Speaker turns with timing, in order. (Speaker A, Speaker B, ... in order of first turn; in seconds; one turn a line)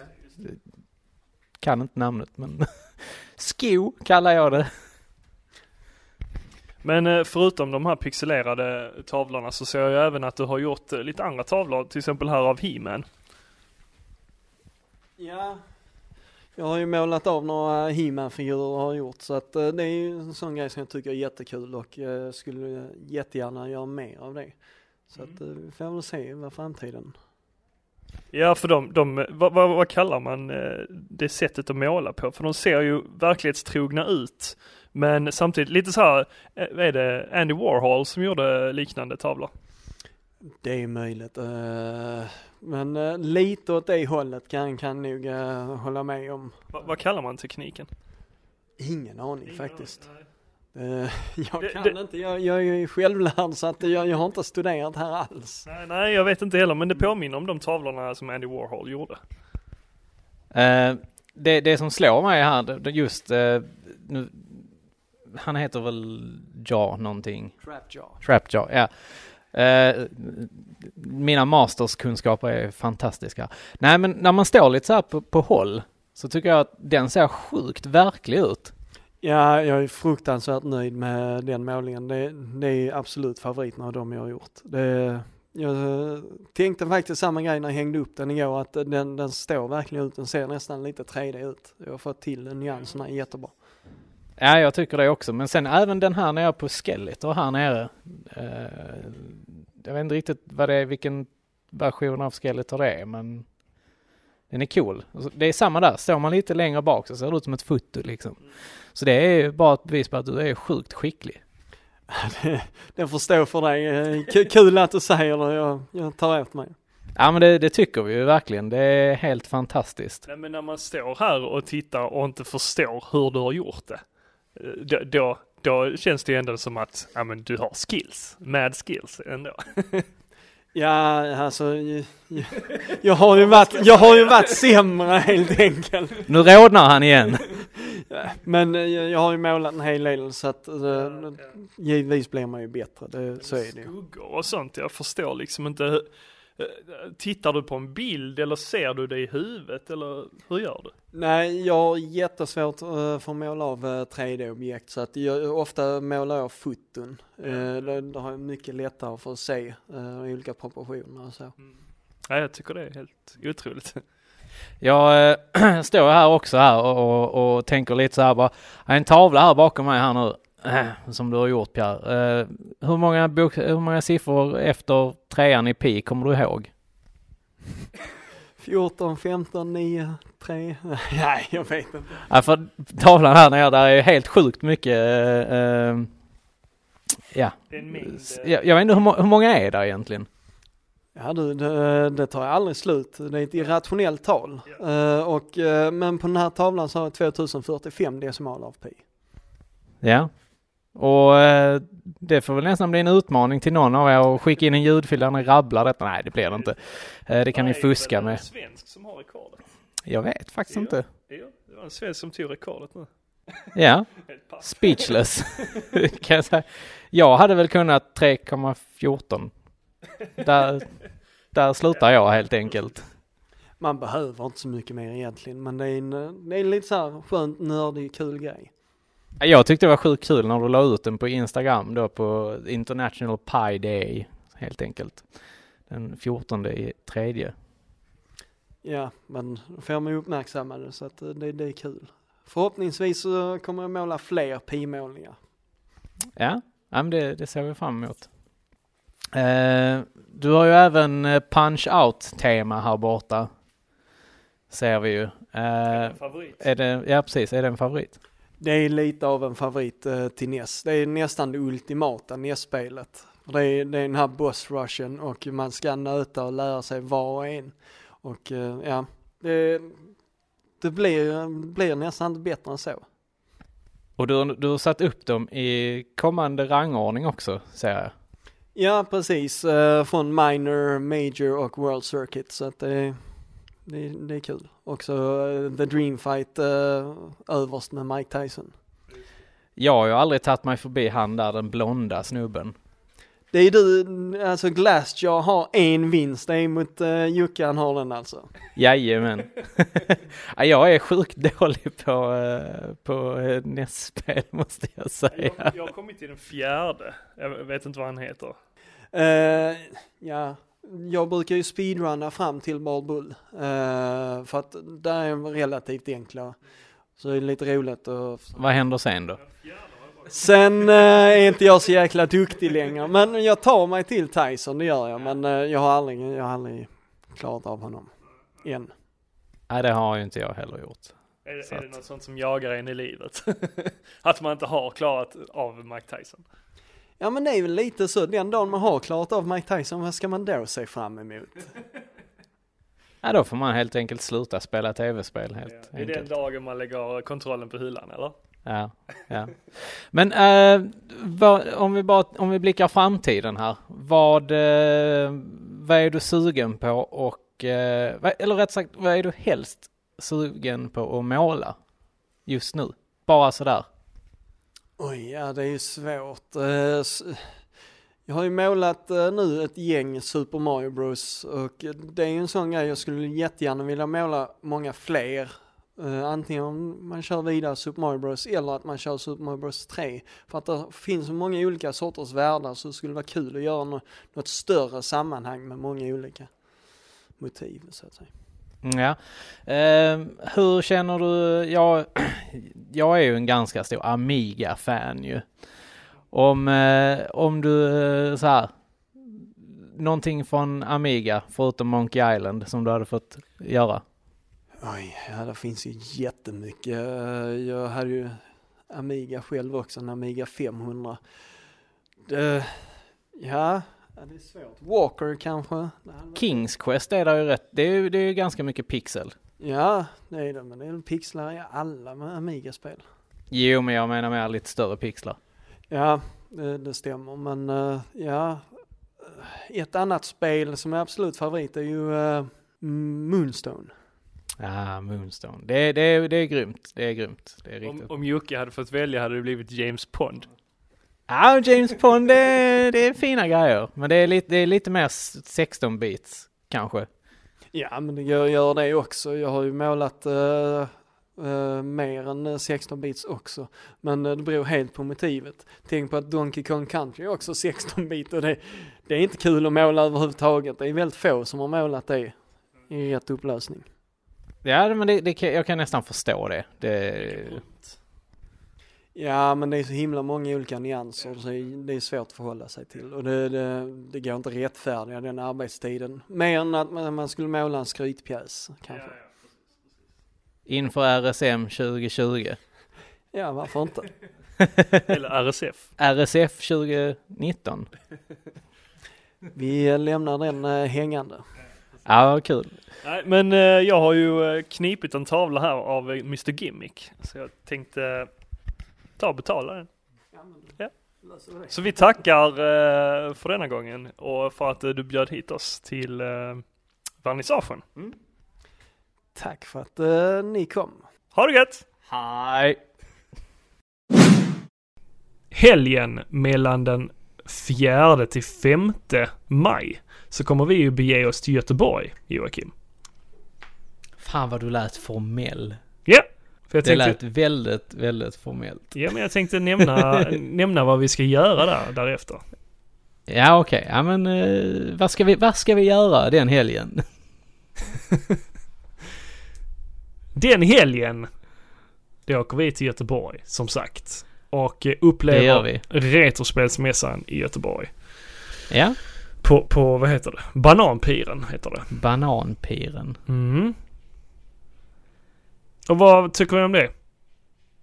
Speaker A: 1.6-2.7
Speaker A: 3.4-4.7
Speaker B: 6.8-13.1
Speaker C: 15.2-15.6
Speaker C: 16.6-24.5
Speaker C: 25.1-27.1
Speaker B: 28.3-39.5
Speaker C: 40.5-46.6
Speaker B: 46.7-47.9
Speaker C: 48.8-50.0
Speaker B: 49.5-50.2
Speaker C: 50.7-55.6
Speaker B: 51.6-52.0
Speaker B: 55.6-59.2
Speaker A: 60.5-64.7
Speaker A: 65.3-67.5
Speaker C: 67.7-68.2
Speaker A: 68.2-68.9
Speaker A: 69.5-78.7
Speaker C: 79.2-93.5
Speaker A: 94.4-103.4
Speaker A: 104.5-108.4
Speaker A: 108.9-111.4
Speaker C: 112.1-116.8
Speaker A: 117.2-120.2
Speaker B: 120.2-124.0
Speaker B: 124.5-130.1
Speaker C: 130.7-136.3
Speaker B: 133.4-134.5
Speaker A: 136.3-137.5
Speaker C: 137.7-143.9
Speaker B: 141.0-141.4
Speaker B: 143.4-150.9
Speaker C: 151.1-161.5
Speaker B: 162.3-164.0
Speaker A: 164.8-176.7
Speaker C: 178.6-182.2
Speaker A: 182.3-186.1
Speaker A: 187.3-190.3
Speaker B: 187.7-188.6
Speaker C: 191.1-199.0
Speaker A: 200.0-200.3
Speaker A: 200.9-208.4
Speaker B: 207.5-209.6
Speaker A: 210.1-211.1
Speaker B: 210.7-213.1
Speaker A: 213.7-214.1
Speaker B: 214.3-215.1
Speaker A: 214.6-219.5
Speaker A: 220.4-220.9
Speaker A: 221.5-223.0
Speaker C: 223.8-228.7
Speaker A: 229.4-235.2
Speaker A: 235.9-237.5
Speaker C: 238.8-245.4
Speaker A: 246.3-248.3
Speaker A: 249.3-253.5
Speaker A: 254.7-258.2
Speaker B: 255.9-256.6
Speaker C: 258.6-270.0
Speaker C: 270.8-273.0
Speaker A: 274.2-278.1
Speaker C: 278.7-283.2
Speaker C: 283.9-288.7
Speaker A: 289.8-292.7
Speaker C: 293.5-298.5
Speaker A: 298.8-305.7
Speaker B: 305.3-308.6
Speaker C: 309.1-316.6
Speaker C: 317.2-318.6
Speaker A: 318.6-319.4
Speaker B: 319.6-320.4
Speaker C: 320.3-328.1
Speaker C: 328.6-328.9
Speaker A: 329.7-331.1
Speaker B: 331.4-336.4
Speaker C: 337.2-341.7
Speaker A: 343.2-346.3
Speaker B: 345.7-348.4
Speaker A: 348.6-361.8
Speaker A: 362.4-363.9
Speaker C: 365.0-367.4
Speaker C: 368.3-386.5
Speaker C: 387.4-388.3
Speaker A: 388.8-395.4
Speaker A: 396.3-398.7
Speaker A: 399.4-404.0
Speaker C: 404.8-411.2
Speaker C: 412.2-412.8
Speaker C: 413.4-416.6
Speaker A: 416.3-419.3
Speaker C: 419.6-423.0
Speaker A: 423.5-425.4
Speaker C: 425.9-428.7
Speaker C: 429.2-433.9
Speaker A: 434.6-438.1
Speaker B: 437.8-440.5
Speaker A: 441.3-447.1
Speaker C: 447.7-462.3
Speaker C: 462.9-463.8
Speaker A: 464.6-467.6
Speaker B: 467.2-468.0
Speaker C: 469.1-479.1
Speaker B: 478.9-479.3
Speaker A: 480.7-482.6
Speaker C: 483.3-484.1
Speaker A: 484.6-485.0
Speaker B: 485.0-485.9
Speaker A: 486.0-487.9
Speaker C: 489.5-491.4
Speaker A: 492.0-492.8
Speaker B: 493.0-498.3
Speaker B: 499.2-499.9
Speaker C: 501.3-501.6
Speaker B: 501.7-506.6
Speaker B: 507.2-507.8
Speaker C: 509.4-511.0
Speaker B: 511.3-511.8
Speaker A: 512.1-512.8
Speaker B: 515.5-522.7
Speaker A: 524.2-525.8
Speaker B: 526.0-527.2
Speaker A: 526.8-529.0
Speaker B: 528.9-532.4
Speaker A: 529.8-530.1
Speaker A: 533.3-537.0
Speaker B: 540.3-541.3
Speaker B: 542.2-547.9
Speaker A: 545.3-545.8
Speaker A: 548.7-549.0
Speaker B: 549.4-551.9
Speaker A: 551.9-553.2
Speaker B: 553.3-553.8
Speaker B: 555.9-556.9